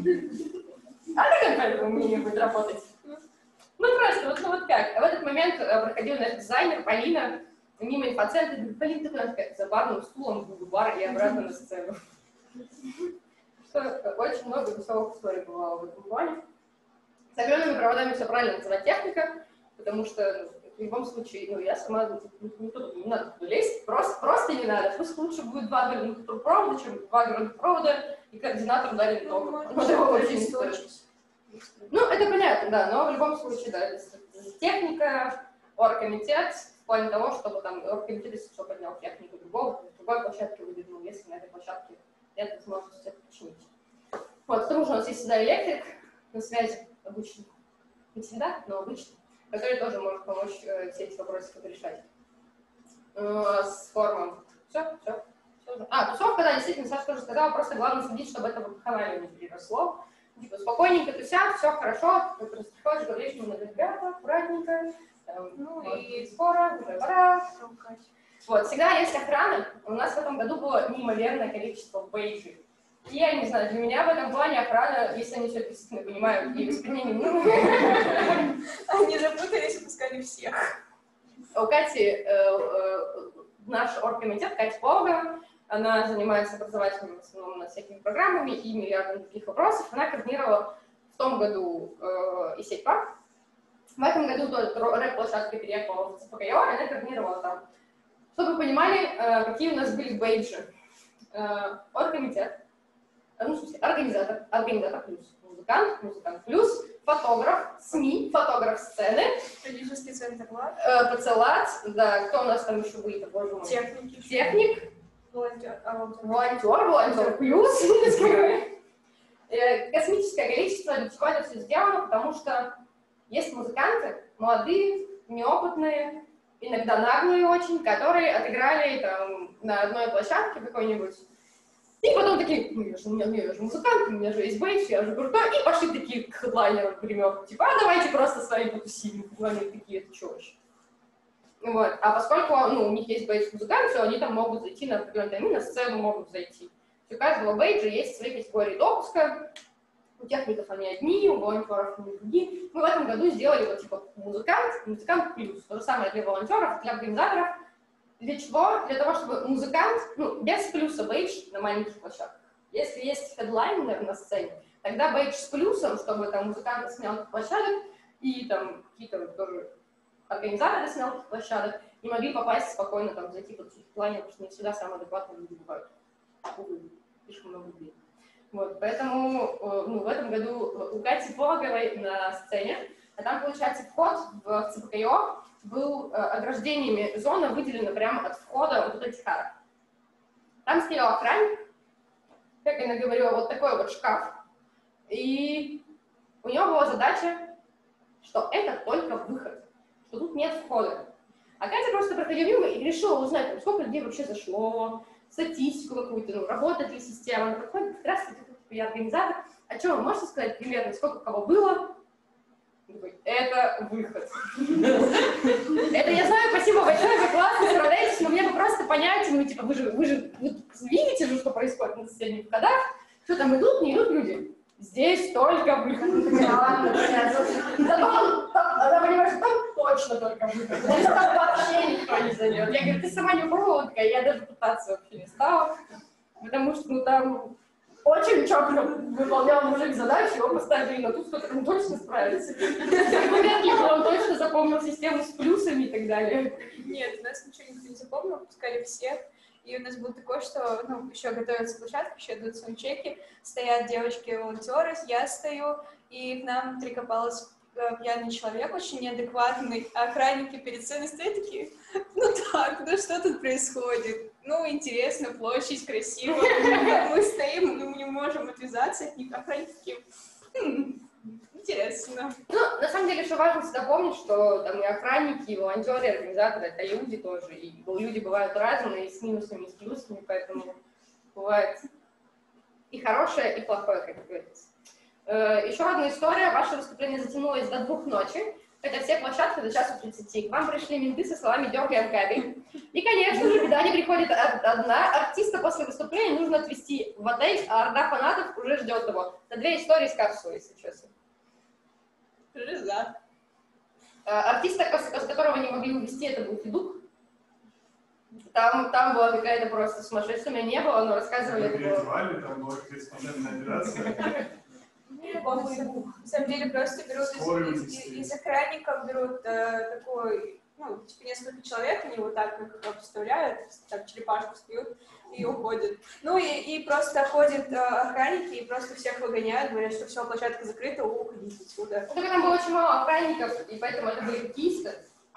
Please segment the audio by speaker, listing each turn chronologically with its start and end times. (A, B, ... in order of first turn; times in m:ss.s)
0:01.1-0:02.9 A
0:03.8-0:12.0 A
0:13.6-0:16.4 A
0:17.3-0:30.8 A
0:29.2-0:31.9 B
0:31.9-0:43.7 A
0:44.5-0:47.5 A
0:48.1-0:52.0 A
0:53.2-1:07.5 A
1:05.6-1:07.0 B
1:07.5-1:08.1 B
1:08.5-1:18.5 A
1:17.6-1:20.8 B
1:21.5-1:33.1 A
1:34.0-1:37.6 A
1:38.3-1:40.7 A
1:41.3-1:42.6 A
1:43.4-1:49.4 A
1:49.6-1:50.8 B
1:50.8-1:54.9 A
1:53.6-1:54.7 B
1:55.3-1:57.5 B
1:56.2-1:58.7 A
1:59.5-2:11.2 A
2:12.0-2:20.6 A
2:21.6-2:29.5 A
2:30.2-2:37.6 A
2:38.2-2:49.7 A
2:50.3-2:55.9 A
2:56.4-2:58.0 A
2:58.5-3:09.6 A
3:10.7-3:11.6 A
3:12.6-3:14.4 A
3:15.1-3:15.8 A
3:16.4-3:17.6 A
3:18.2-3:32.0 A
3:32.9-3:55.8 A
3:56.4-4:06.7 A
4:06.8-4:30.0 B
4:26.6-4:27.0 A
4:30.6-4:32.4 B
4:32.5-4:40.8 A
4:41.3-4:41.8 A
4:42.9-4:44.7 A
4:45.3-5:01.1 A
5:02.5-5:03.2 B
5:04.2-5:07.0 A
5:08.5-5:12.1 A
5:11.4-5:14.5 C
5:15.2-5:32.1 B
5:17.2-5:18.3 C
5:32.1-5:35.0 A